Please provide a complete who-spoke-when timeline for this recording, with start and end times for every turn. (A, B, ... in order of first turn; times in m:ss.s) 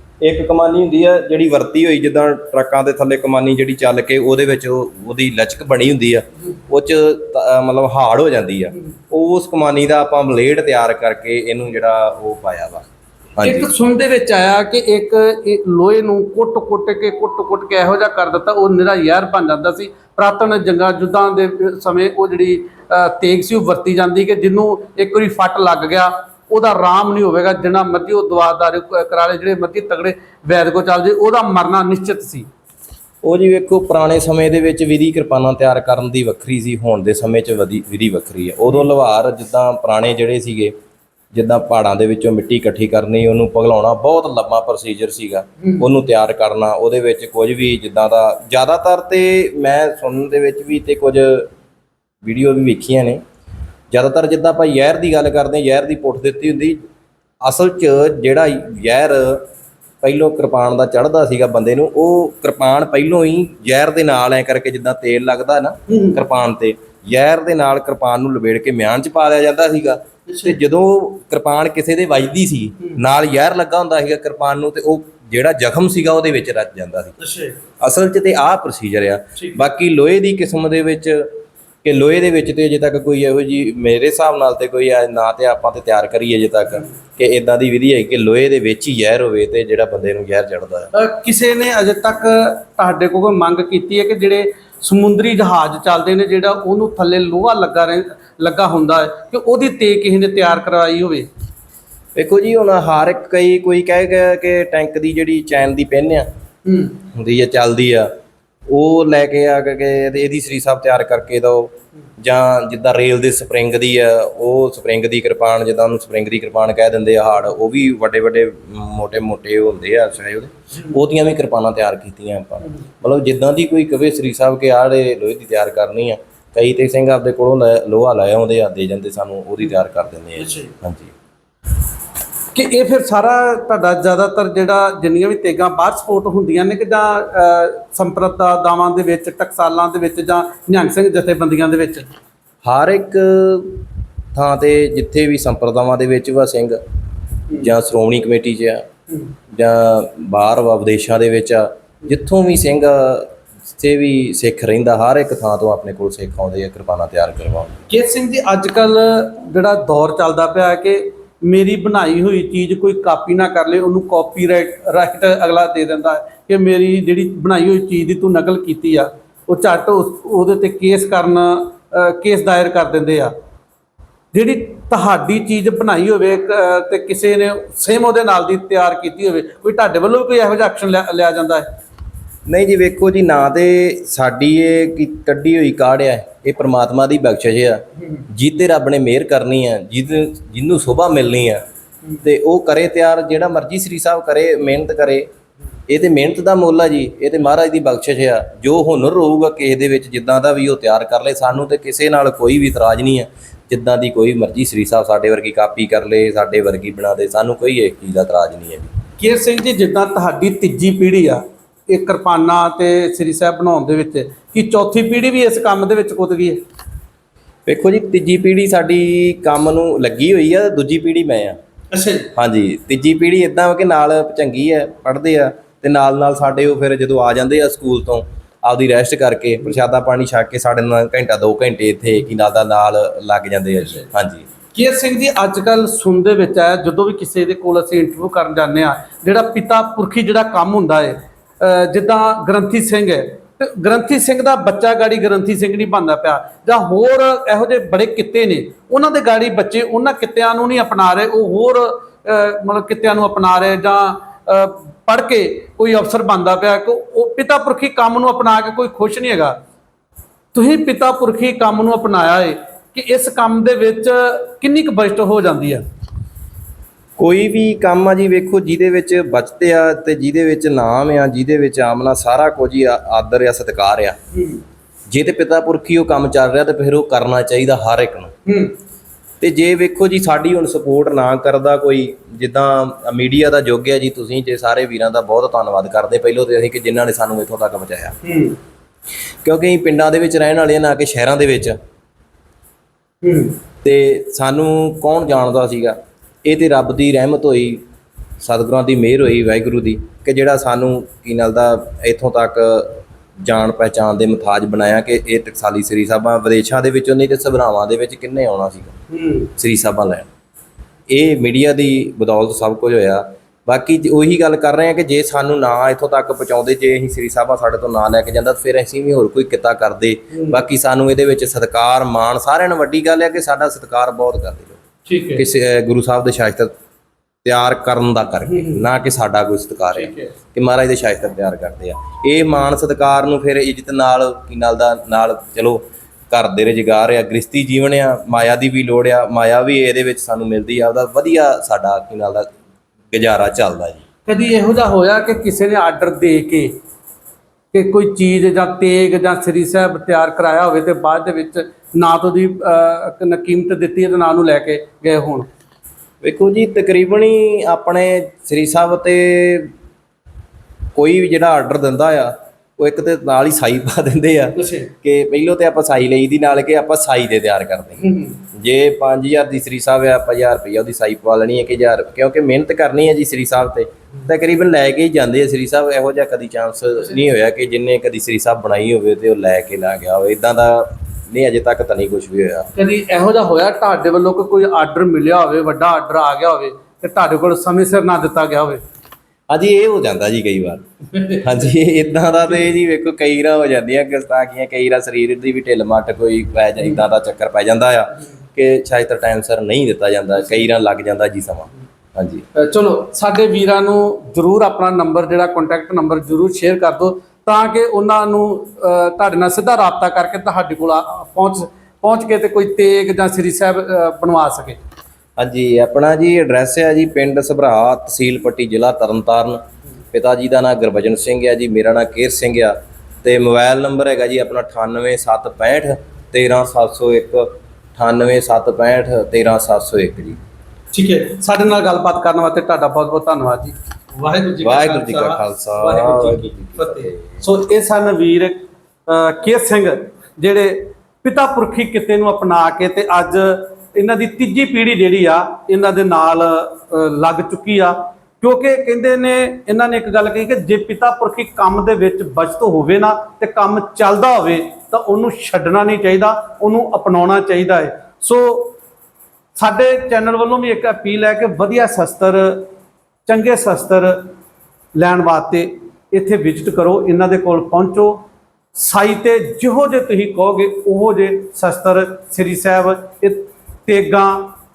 0:00.2-0:12.8 A
0:13.4-0:13.7 A
0:13.4-0:32.5 B
0:33.2-0:40.7 A
0:41.3-0:51.5 A
0:52.2-0:53.2 A
0:53.9-0:56.8 A
0:57.4-0:59.4 A
1:00.0-1:17.2 A
1:05.9-1:06.2 B
1:10.3-1:10.6 B
1:17.2-1:17.6 B
1:17.8-1:21.3 A
1:19.4-1:19.6 B
1:21.8-1:30.9 A
1:30.9-1:41.3 B
1:42.2-1:46.3 A
1:46.6-1:47.0 B
1:47.1-1:48.1 A
1:48.7-2:11.1 A
2:10.4-2:10.7 B
2:12.5-2:22.1 B
2:22.6-2:26.8 A
2:27.6-2:28.8 A
2:29.5-2:37.8 A
2:37.9-2:53.3 B
2:54.3-3:01.7 B
3:02.4-3:11.6 A
3:12.2-3:15.3 A
3:15.9-3:28.9 A
3:29.2-3:36.6 B
3:37.7-3:41.6 A
3:41.9-3:42.3 B
3:42.3-3:54.5 A
3:54.7-4:19.6 B
4:20.5-4:25.8 B
4:27.2-4:34.2 A
4:34.3-4:34.6 B
4:35.1-4:38.3 A
4:38.4-4:38.8 B
4:39.4-4:48.2 A
4:48.2-4:48.6 B
4:49.4-4:51.8 A
4:53.2-4:53.6 B
4:53.8-4:57.8 A
4:58.4-5:08.9 A
5:09.1-5:09.5 B
5:09.6-5:10.3 A
5:11.1-5:24.8 A
5:20.3-5:20.6 B
5:25.0-5:25.4 B
5:25.3-5:26.7 A
5:27.4-5:42.5 A
5:28.5-5:28.8 B
5:29.9-5:30.3 B
5:43.1-5:44.0 A
5:44.3-5:46.8 B
5:47.7-5:55.5 B
5:56.2-5:59.7 A
6:01.0-6:22.7 A
6:04.6-6:04.9 B
6:08.0-6:08.4 B
6:22.7-6:28.8 B
6:29.5-6:42.4 A
6:42.5-6:54.8 B
6:55.4-6:59.6 A
7:00.1-7:10.4 A
7:10.9-7:38.8 B
7:14.6-7:17.4 A
7:39.5-7:42.7 B
7:43.2-7:44.3 B
7:44.9-7:48.2 B
7:48.7-7:54.5 B